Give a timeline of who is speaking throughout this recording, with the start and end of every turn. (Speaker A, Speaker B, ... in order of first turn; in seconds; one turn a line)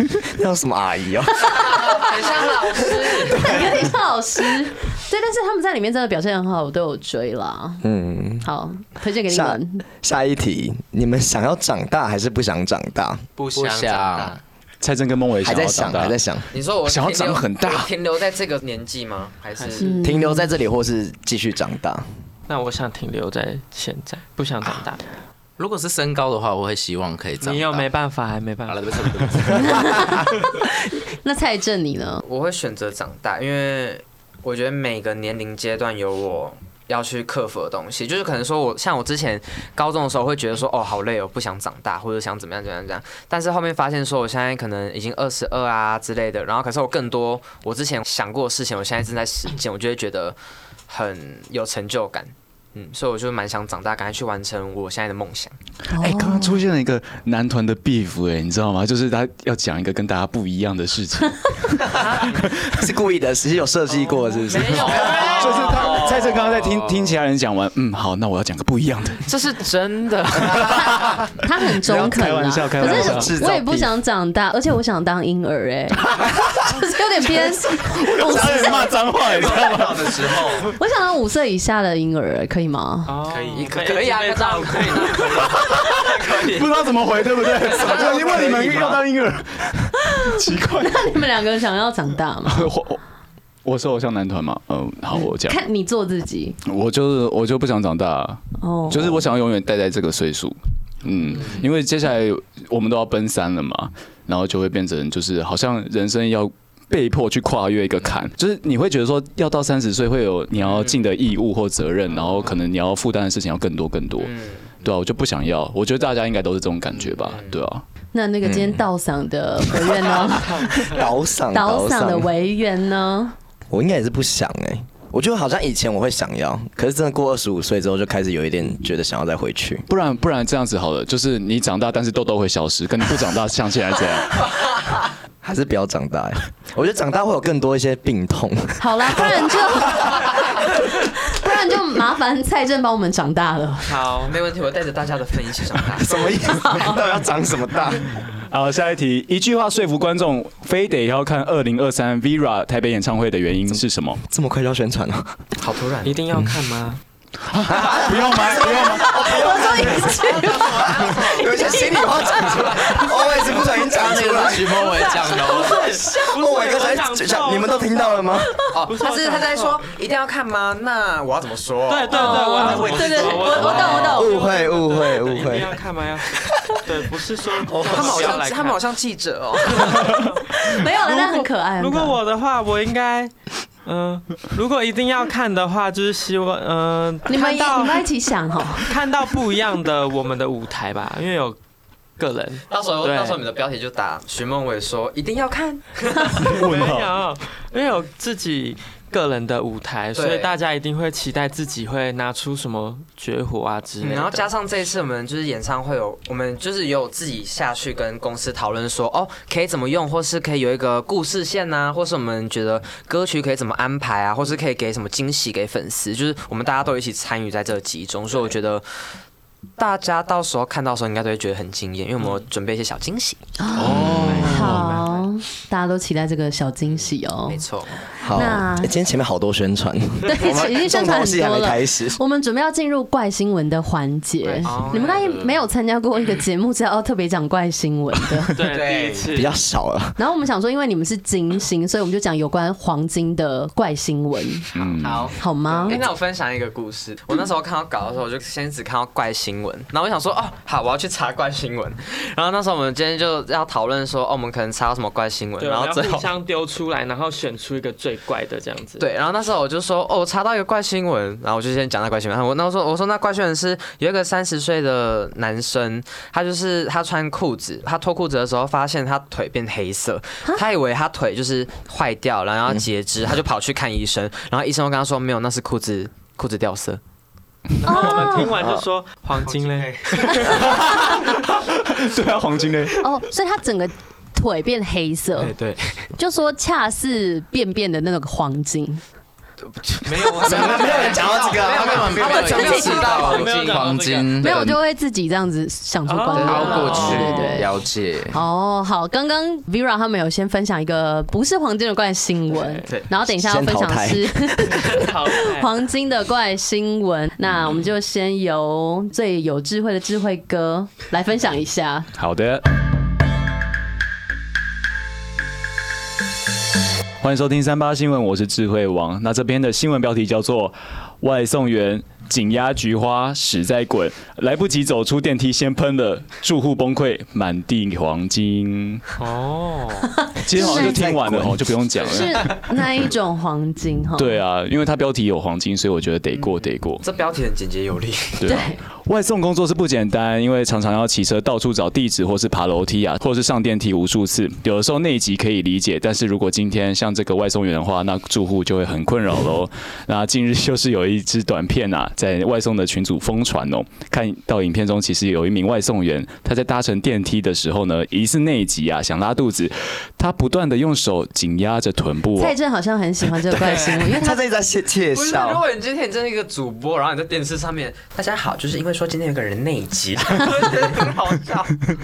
Speaker A: 0.2-2.1
Speaker B: 1.7-3.7
Speaker C: 3.2-7.8
Speaker A: 7.8-8.5
Speaker C: 8.4-9.8
Speaker A: 9.3-13.2
Speaker D: 13.4-14.4
Speaker E: 13.6-14.4
Speaker F: 14.8-16.2
Speaker A: 15.4-16.5
Speaker B: 16.5-20.0
Speaker F: 16.8-17.9
Speaker G: 19.6-19.9
Speaker C: 19.8-20.5
Speaker A: 20.0-22.0
Speaker G: 22.5-25.0
Speaker E: 25.6-27.9
Speaker G: 27.4-29.5
Speaker E: 28.9-29.7
Speaker D: 29.2-29.8
Speaker C: 29.6-32.2
Speaker B: 32.2-50.4
Speaker B: 50.9-55.5
Speaker C: 55.9-56.6
Speaker F: 56.0-62.8
Speaker A: 62.6-65.2
Speaker B: 64.5-66.4
Speaker G: 64.9-65.5
Speaker F: 64.9-69.2
Speaker D: 65.0-66.1
Speaker B: 69.2-71.2
Speaker F: 70.6-71.2
Speaker C: 71.4-78.9
Speaker A: 71.9-73.9
Speaker F: 71.9-73.3
Speaker F: 77.8-80.6
Speaker D: 78.3-80.7
Speaker C: 80.7-83.2
Speaker G: 83.1-86.1
Speaker D: 83.3-83.9
Speaker B: 83.5-86.7
Speaker F: 85.6-91.1
Speaker D: 87.7-89.0
Speaker C: 90.1-92.7
Speaker F: 92.5-93.0
Speaker F: 93.7-95.6
Speaker C: 95.1-96.6
Speaker F: 96.7-114.3
Speaker C: 98.6-99.2
Speaker B: 110.6-111.0
Speaker B: 114.2-114.7
Speaker F: 114.8-117.8
Speaker B: 117.3-117.6
Speaker C: 118.1-121.0
Speaker A: 120.7-122.3
Speaker C: 121.5-123.3
Speaker A: 123.7-129.8
Speaker F: 129.9-134.5
Speaker A: 135.4-139.5
Speaker C: 138.8-144.0
Speaker G: 143.9-144.4
Speaker B: 144.2-146.3
Speaker A: 146.0-148.1
Speaker C: 146.6-147.0
Speaker F: 148.4-154.2
Speaker A: 154.3-155.4
Speaker B: 155.6-156.2
Speaker G: 156.0-157.0
Speaker F: 157.5-159.9
Speaker A: 157.7-164.9
Speaker C: 159.0-160.8
Speaker B: 160.6-161.7
Speaker E: 163.9-165.8
Speaker G: 165.2-169.8
Speaker A: 166.0-168.5
Speaker B: 168.7-172.8
Speaker G: 171.9-178.8
Speaker C: 172.1-174.3
Speaker D: 172.7-174.0
Speaker B: 173.4-174.0
Speaker A: 173.8-175.8
Speaker D: 177.7-178.4
Speaker B: 177.9-180.3
Speaker G: 179.7-188.1
Speaker C: 180.5-182.2
Speaker C: 187.3-188.9
Speaker G: 188.8-191.6
Speaker G: 192.2-193.4
Speaker B: 192.7-196.6
Speaker G: 196.3-204.5
Speaker F: 196.4-197.1
Speaker B: 200.2-200.5
Speaker B: 204.0-218.9
Speaker B: 219.8-225.2
Speaker C: 223.6-227.6
Speaker F: 223.8-224.9
Speaker A: 223.8-224.5
Speaker B: 227.5-228.0
Speaker A: 228.2-232.2
Speaker C: 228.3-228.9
Speaker C: 230.2-238.6
Speaker B: 234.6-235.4
Speaker G: 234.7-235.0
Speaker G: 238.6-239.5
Speaker D: 238.6-239.4
Speaker A: 239.3-240.2
Speaker C: 240.2-244.7
Speaker F: 244.7-245.3
Speaker D: 245.0-246.0
Speaker C: 245.3-246.0
Speaker B: 245.9-256.3
Speaker G: 255.6-259.1
Speaker B: 259.0-277.0
Speaker G: 277.8-280.9
Speaker C: 277.8-278.5
Speaker A: 278.6-278.8
Speaker D: 279.4-280.4
Speaker F: 280.4-283.0
Speaker C: 283.0-285.5
Speaker B: 285.4-286.1
Speaker C: 286.2-289.0
Speaker B: 289.9-293.6
Speaker D: 290.0-293.9
Speaker A: 290.4-292.4
Speaker E: 291.8-294.8
Speaker C: 292.2-293.1
Speaker G: 292.6-294.4
Speaker C: 294.4-297.7
Speaker G: 296.1-297.8
Speaker B: 296.3-297.5
Speaker E: 296.5-298.4
Speaker C: 298.3-312.1
Speaker A: 303.3-304.6
Speaker G: 304.8-305.7
Speaker F: 312.2-312.6
Speaker F: 317.2-329.0
Speaker G: 329.2-330.1
Speaker F: 330.4-332.7
Speaker A: 330.5-331.8
Speaker C: 330.5-331.0
Speaker C: 332.0-334.4
Speaker F: 334.2-337.0
Speaker B: 336.3-338.5
Speaker F: 338.4-362.6
Speaker C: 338.4-338.8
Speaker C: 362.4-364.4
Speaker A: 363.5-365.6
Speaker B: 365.1-371.7